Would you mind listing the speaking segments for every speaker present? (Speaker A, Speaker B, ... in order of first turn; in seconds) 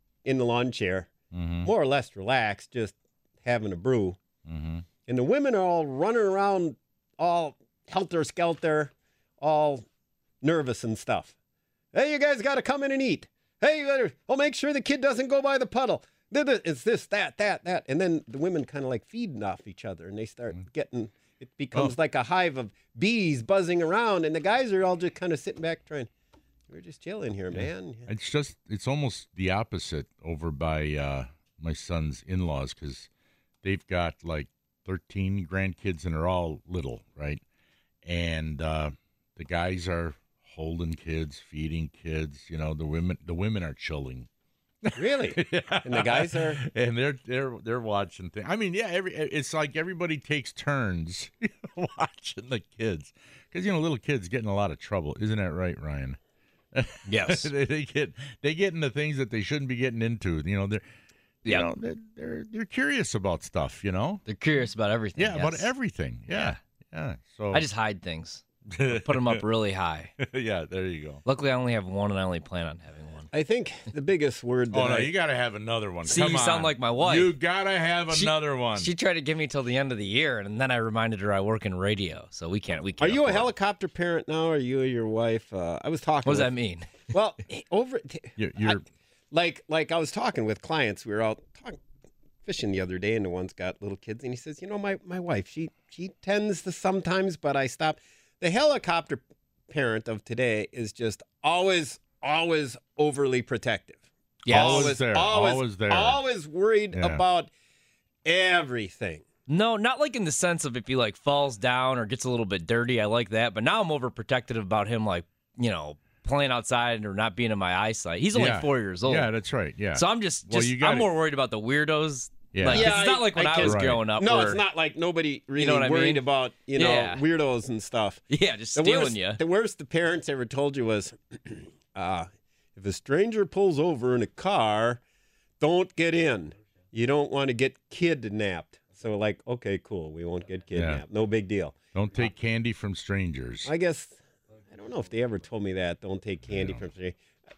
Speaker A: 0.2-1.1, 1.6-4.2, 5.1-9.9, 10.4-11.3, 11.9-26.1, 26.7-28.1, 45.0-46.6, 73.3-75.1, 83.0-86.5, 87.1-88.8, 89.3-91.8, 92.4-107.5, 108.2-109.2, 122.6-128.2, 128.8-135.0, 135.6-142.3, 143.7-147.2
Speaker B: 1.3-1.7, 4.5-4.9, 27.5-33.1, 33.6-37.4, 38.0-44.3, 44.8-56.2, 56.7-60.8, 61.5-64.2, 65.2-67.7, 68.7-69.4, 70.2-71.2, 74.7-78.9, 88.4-88.8, 104.5-106.2, 107.0-107.2, 118.3-121.1, 122.5-123.0, 123.6-124.0, 140.7-141.0, 141.9-143.7, 146.5-146.8
Speaker C: 57.1-57.5, 64.3-65.7, 67.5-70.1, 71.2-73.3, 76.1-77.3, 78.1-83.5, 86.2-87.1, 104.5-105.0, 109.5-119.3, 120.0-124.6, 125.6-127.2, 128.3-129.4